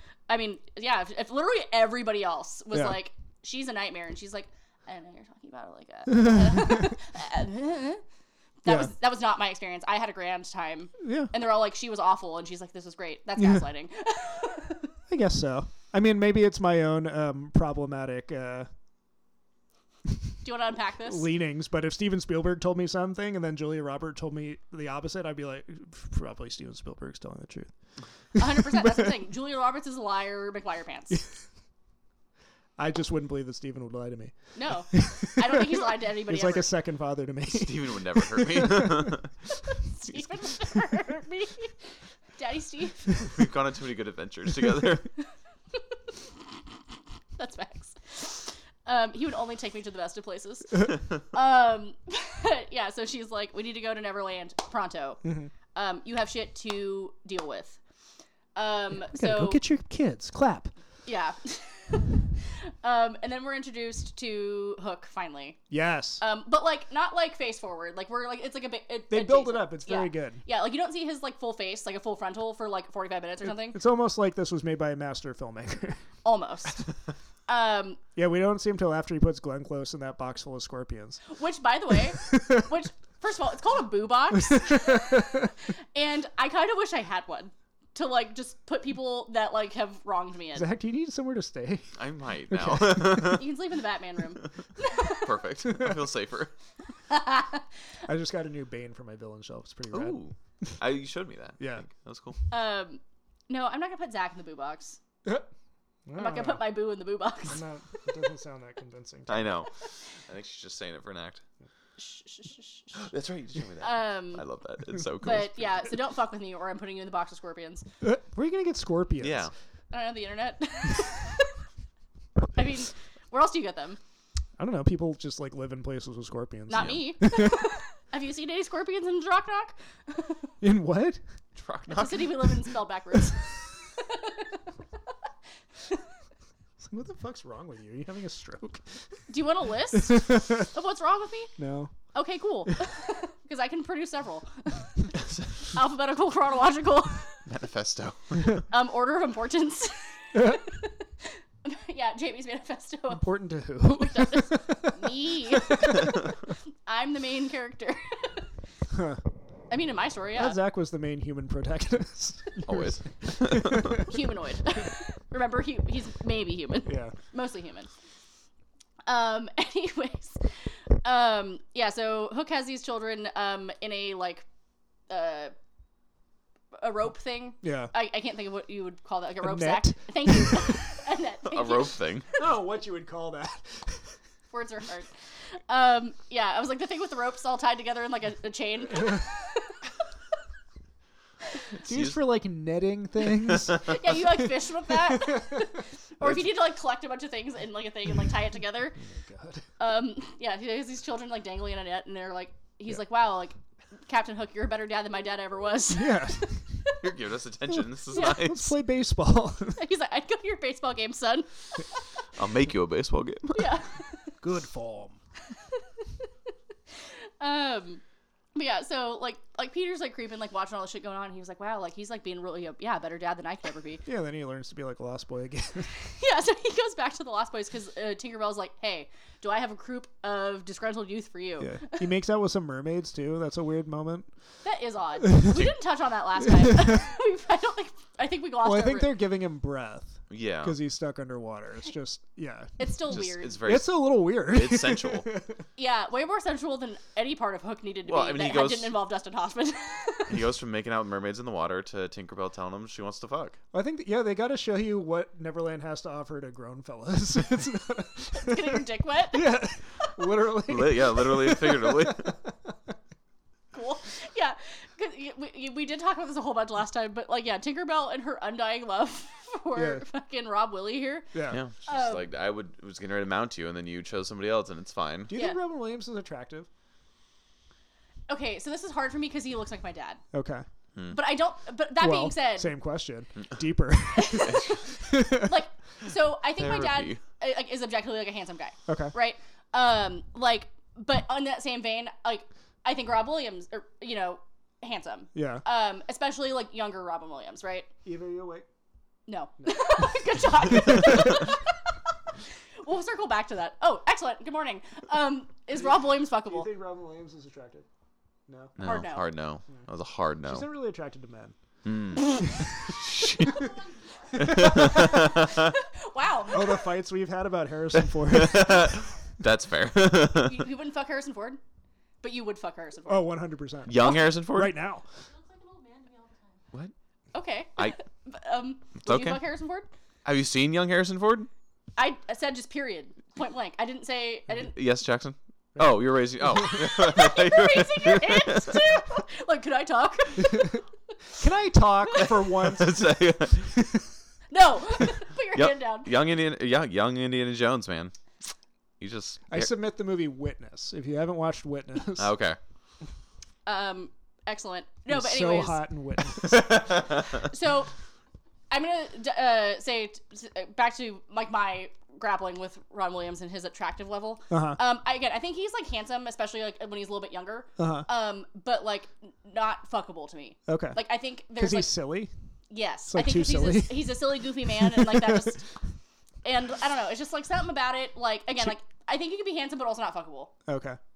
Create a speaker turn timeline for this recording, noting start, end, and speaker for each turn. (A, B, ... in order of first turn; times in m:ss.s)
0:00.3-0:08.0 A
0:06.1-0:06.9 B
0:08.6-0:14.9 A
0:08.6-0:08.9 B
0:11.0-0:11.3 B
0:13.4-0:13.6 B
0:15.1-0:18.7 B
0:20.4-0:21.3 A
0:21.0-0:27.7 B
0:28.4-0:31.2 A
0:28.4-0:29.1 B
0:32.8-0:34.3 B
0:34.5-0:36.7 A
0:34.9-0:39.2 B
0:37.5-0:39.3 C
0:39.9-0:41.8 A
0:42.4-0:43.2 A
0:43.2-0:45.1 C
0:47.4-0:55.2 A
0:55.2-0:55.5 B
0:55.7-0:57.8 A
0:58.5-0:59.6 A
0:59.0-1:00.7 B
1:01.0-1:05.6 A
1:05.7-1:06.2 B
1:06.2-1:13.8 A
1:09.1-1:10.4 B
1:13.4-1:16.0 B
1:16.2-1:16.9 A
1:17.5-1:18.0 A
1:18.2-1:21.2 B
1:21.3-1:30.7 A
1:22.3-1:22.6 B
1:24.5-1:25.5 B
1:30.5-1:32.0 B
1:32.0-1:33.5 C
1:32.5-1:33.4 B
1:33.2-1:35.3 A
1:35.0-1:36.5 C
1:37.1-1:37.6 A
1:38.1-1:40.2 B
1:39.9-1:42.4 C
1:41.6-1:41.8 B
1:42.5-1:45.0 A
1:46.1-1:46.6 B
1:46.2-1:47.6 A
1:47.5-1:49.6 B
1:49.3-1:51.4 C
1:52.0-1:53.1 A
1:53.0-1:55.6 C
1:53.8-1:54.4 A
1:55.2-1:57.8 A
1:58.0-1:59.5 B
1:59.2-1:59.5 C
1:59.9-2:01.6 A
2:02.5-2:04.0 A
2:04.6-2:07.6 B
2:06.7-2:10.5 A
2:06.7-2:07.0 C
2:10.6-2:11.2 B
2:11.6-2:12.6 C
2:11.9-2:14.6 A
2:16.8-2:18.8 B
2:19.3-2:21.5 A
2:19.9-2:20.7 B
2:21.6-2:21.9 B
2:22.1-2:25.1 A
2:25.1-2:25.5 C
2:25.6-2:27.4 A
2:27.4-2:28.6 C
2:28.5-2:33.2 A
2:30.3-2:30.6 B
2:33.1-2:36.2 B
2:33.8-2:38.5 A
2:38.9-2:39.2 B
2:39.7-2:40.6 A
2:40.4-2:44.1 B
2:42.6-2:44.0 C
2:43.9-2:47.9 A
2:46.8-2:47.1 B
2:49.0-2:50.5 A
2:51.0-2:54.4 A
2:55.1-2:55.5 A
2:56.7-3:02.0 A
2:57.6-2:57.9 B
2:59.4-3:00.8 B
3:01.5-3:02.3 C
3:02.4-3:04.2 B
3:04.5-3:05.1 A
3:05.7-3:09.9 A
3:11.8-3:16.5 B
3:11.9-3:12.2 C
3:13.7-3:19.0 A
3:19.0-3:19.7 B
3:19.8-3:26.9 A
3:25.9-3:26.6 B
3:27.0-3:28.7 C
3:27.7-3:29.8 B
3:28.1-3:28.4 A
3:29.8-3:32.0 A
3:32.3-3:33.8 C
3:33.5-3:34.3 A
3:34.4-3:35.2 B
3:37.4-3:38.0 A
3:38.5-3:44.0 A
3:44.0-3:45.9 B
3:46.0-3:52.0 A
3:51.6-3:54.3 B
3:54.6-3:59.2 A
3:55.2-3:55.6 B
3:56.6-3:57.0 B
3:58.6-4:05.6 B
4:00.3-4:00.8 C
4:02.8-4:03.6 A
4:03.1-4:05.3 C
4:05.8-4:10.4 A
4:08.0-4:09.0 C
4:10.3-4:13.6 C
4:13.7-4:22.7 B
4:18.3-4:19.5 A
4:20.7-4:22.4 C
4:23.7-4:32.3 A
4:29.8-4:30.0 B
4:31.3-4:31.6 B
4:31.5-4:35.3 C
4:35.3-4:36.7 B
4:35.3-4:35.6 A
4:38.3-4:40.2 A
4:40.3-4:40.6 B
4:41.1-4:42.7 A
4:42.0-4:45.6 B
4:44.1-4:57.9 A
4:44.4-4:44.7 C
4:46.6-4:47.2 C
4:48.9-4:49.1 B
4:55.3-4:55.6 B
4:58.0-4:58.7 B
4:59.3-5:01.9 A
4:59.6-5:00.0 B
5:00.7-5:01.2 B
5:02.8-5:06.7 A
5:05.8-5:07.9 B
5:08.5-5:08.8 B
5:08.8-5:10.7 C
5:08.8-5:09.3 A
5:10.4-5:11.6 B
5:11.8-5:13.7 C
5:12.4-5:13.7 B
5:13.4-5:13.7 A
5:14.3-5:15.3 B
5:14.3-5:15.6 C
5:14.4-5:16.9 A
5:16.5-5:19.0 B
5:18.0-5:20.7 C
5:20.4-5:21.6 A
5:22.2-5:23.3 A
5:23.1-5:25.0 B
5:23.9-5:24.8 C
5:27.3-5:29.9 A
5:29.0-5:29.4 C
5:30.2-5:31.5 C
5:32.0-5:34.7 A
5:34.7-5:38.9 C
5:35.8-5:36.0 B
5:36.7-5:40.8 A
5:41.4-5:43.1 B
5:42.2-5:43.9 C
5:44.5-5:46.1 A
5:45.5-5:48.1 C
5:49.0-5:49.7 C
5:49.5-5:52.3 B
5:52.2-5:52.6 C
5:53.6-5:55.8 A
5:55.1-5:56.8 B
5:56.4-5:57.4 C
5:57.3-5:57.9 A
5:58.7-6:11.9 A
6:04.5-6:04.8 B
6:07.8-6:08.1 B
6:10.7-6:11.0 B
6:11.6-6:12.3 B
6:12.7-6:15.6 A
6:13.1-6:15.6 B
6:16.4-6:20.5 A
6:20.7-6:21.0 B